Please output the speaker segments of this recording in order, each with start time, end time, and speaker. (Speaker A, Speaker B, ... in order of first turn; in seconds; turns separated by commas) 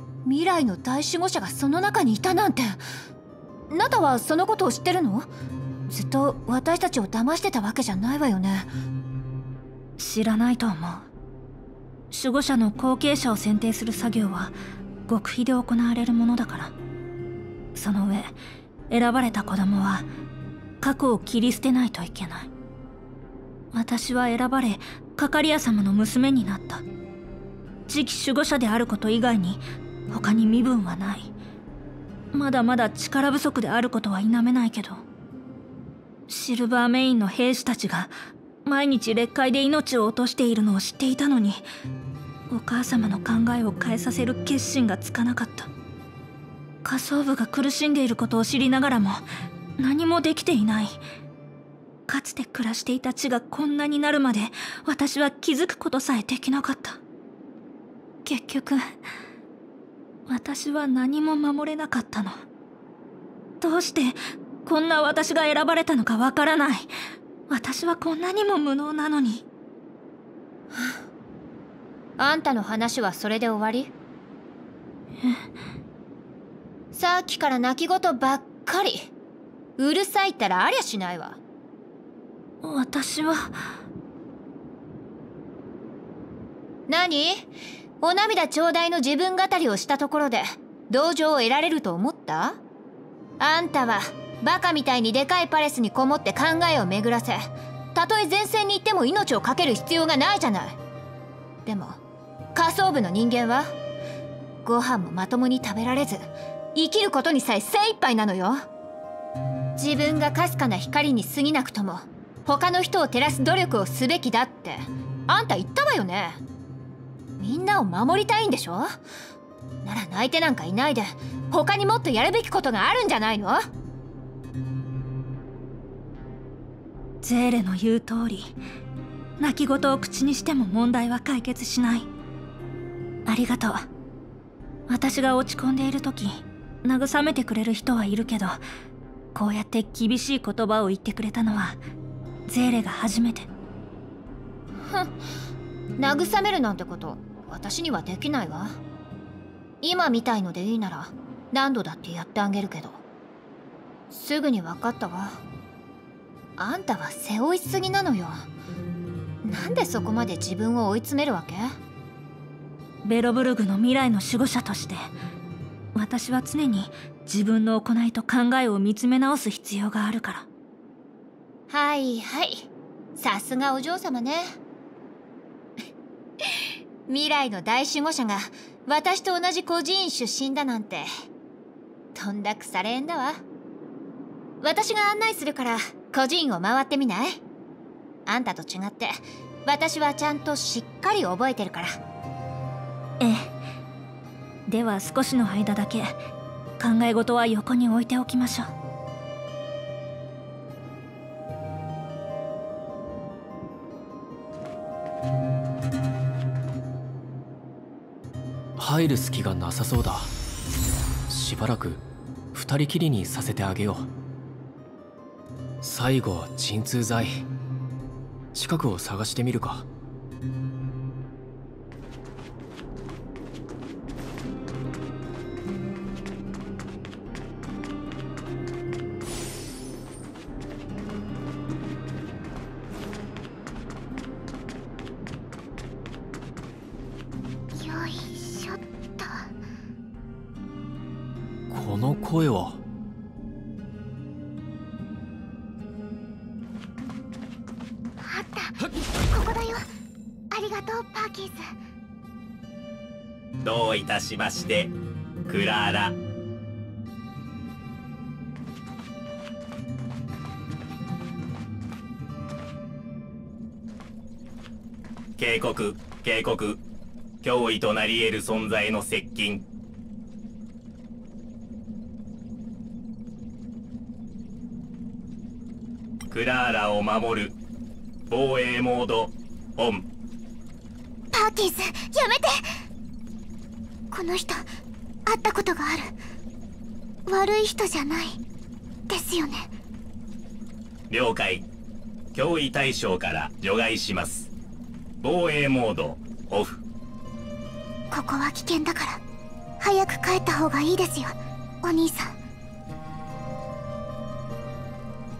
Speaker A: 0.2-2.8, Speaker A: 3.7-5.3, Speaker A: 5.9-8.7, Speaker B: 10.0-11.1, Speaker B: 12.1-14.6, Speaker B: 15.1-16.8, Speaker B: 17.8-18.4, Speaker B: 18.9-20.1, Speaker B: 20.8-22.5, Speaker B: 23.7-26.9, Speaker B: 27.9-31.3, Speaker B: 32.3-35.0, Speaker B: 36.3-41.7, Speaker B: 42.5-45.7, Speaker B: 46.8-49.3, Speaker B: 49.8-51.0, Speaker B: 52.1-57.0, Speaker B: 58.2-58.9, Speaker B: 60.3-62.4, Speaker B: 63.6-66.9, Speaker B: 67.5-69.5, Speaker A: 70.7-71.0, Speaker A: 72.2-73.9, Speaker B: 75.2-75.5, Speaker A: 76.9-79.1, Speaker A: 79.8-81.4, Speaker B: 82.6-83.8, Speaker A: 86.9-87.5, Speaker A: 88.0-92.6, Speaker A: 93.4-100.8, Speaker A: 101.7-102.0, Speaker A: 102.5-103.7, Speaker A: 104.7-106.2, Speaker A: 106.8-108.6, Speaker A: 109.8-116.4, Speaker A: 117.4-118.9, Speaker A: 119.8-123.6, Speaker B: 127.2-128.6, Speaker B: 129.4-132.1, Speaker B: 133.3-133.9, Speaker B: 134.9-138.6, Speaker B: 139.3-141.8, Speaker B: 142.5-143.5, Speaker A: 144.8-145.2, Speaker A: 146.0-148.8, Speaker A: 149.8-153.0, Speaker A: 154.1-155.4, Speaker A: 156.6-158.5, Speaker A: 159.4-161.8, Speaker B: 163.0-165.1, Speaker B: 165.9-170.5, Speaker A: 171.7-174.6, Speaker A: 176.4-181.1, Speaker A: 182.2-183.4, Speaker A: 184.6-187.4, Speaker A: 188.3-192.0, Speaker B: 193.2-193.6, Speaker B: 194.7-196.2, Speaker B: 196.8-198.7, Speaker C: 208.8-210.3, Speaker C: 211.3-214.1, Speaker C: 215.8-217.4, Speaker C: 218.5-219.9, Speaker D: 237.7-239.5, Speaker C: 241.7-242.8, Speaker D: 248.2-249.9, Speaker D: 250.5-251.7, Speaker E: 253.6-254.9, Speaker E: 255.5-256.2, Speaker E: 265.4-266.8, Speaker E: 267.4-269.7, Speaker E: 276.3-277.6, Speaker E: 278.3-280.1, Speaker D: 281.3-282.7, Speaker D: 284.1-284.7, Speaker D: 285.3-286.2, Speaker D: 287.3-288.4, Speaker D: 289.1-289.7, Speaker E: 291.1-291.7, Speaker E: 292.3-294.5, Speaker E: 295.2-296.8, Speaker D: 298.1-299.2, Speaker D: 299.8-302.4